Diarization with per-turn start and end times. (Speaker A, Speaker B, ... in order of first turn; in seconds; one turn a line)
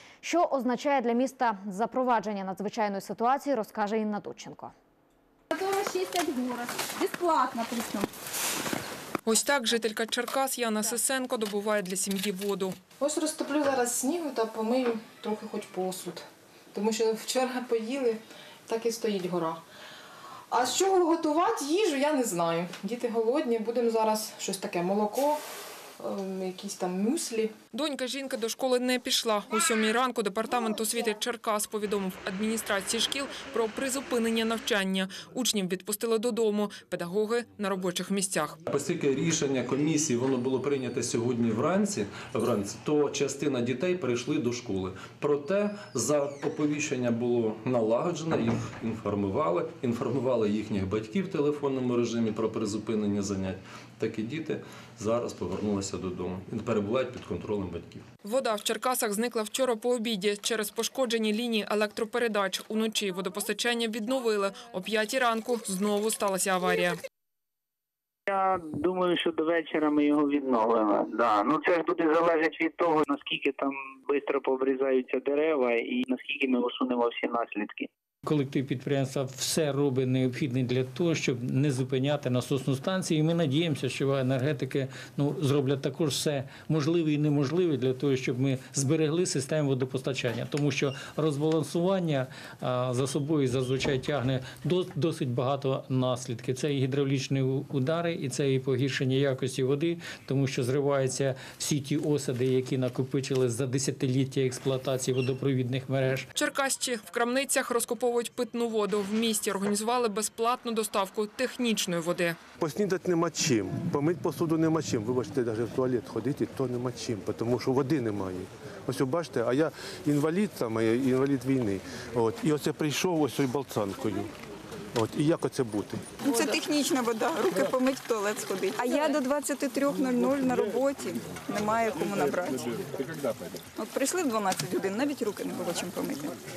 Speaker A: 0.2-4.7
Speaker B: 5.5-8.1
Speaker C: 9.2-12.8
Speaker D: 13.0-19.6
Speaker D: 20.5-25.4
Speaker D: 26.0-27.5
Speaker C: 27.7-38.6
Speaker E: 38.7-58.0
Speaker C: 58.2-67.0
Speaker F: 68.3-77.9
Speaker G: 78.2-106.3
Speaker C: 106.3-112.3
Speaker H: 112.6-124.3
Speaker H: 125.0-126.0
Speaker I: 126.2-132.7
Speaker I: 133.8-136.3